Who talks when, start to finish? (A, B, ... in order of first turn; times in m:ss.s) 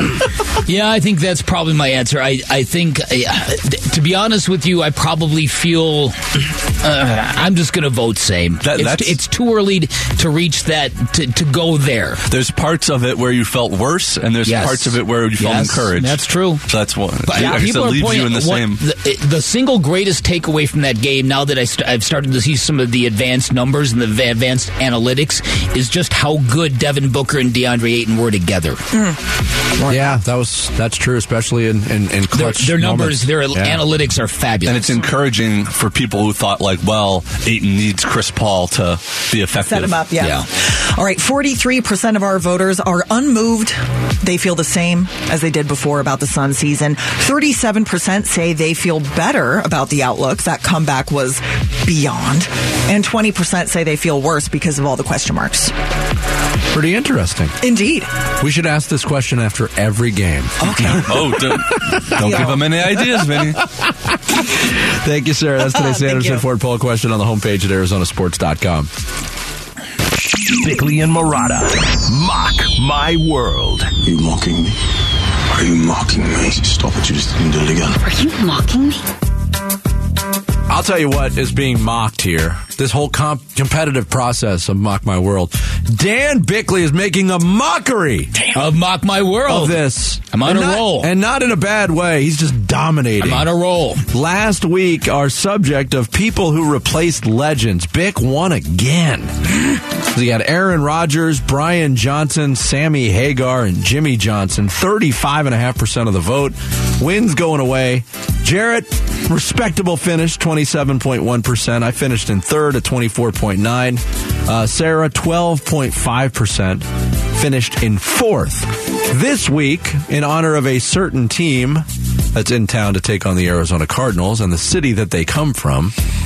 0:00.6-0:12.2 A
0:08.6-0:09.2 B
0:12.3-0:18.8 B
0:14.4-0:16.6 A
0:17.2-0:28.8 A
0:28.9-0:29.2 C
0:29.8-0:30.2 C
0:29.9-0:33.8 D
0:32.3-0:35.0 A
0:34.6-0:40.0 B
0:39.5-0:55.7 C
0:40.2-0:40.5 A
0:56.7-0:57.6 D
0:57.6-0:58.1 C
0:58.4-1:02.5 D
1:00.6-1:01.3 C
1:00.9-1:03.6 B
1:02.2-1:02.6 C
1:03.2-1:08.9 D
1:05.7-1:06.4 C
1:10.5-1:13.9 E
1:14.0-1:14.8 F
1:15.5-1:18.7 F
1:20.7-1:28.3 D
1:28.5-1:31.1 A
1:29.4-1:33.5 D
1:33.2-1:34.0 A
1:34.1-2:05.9 D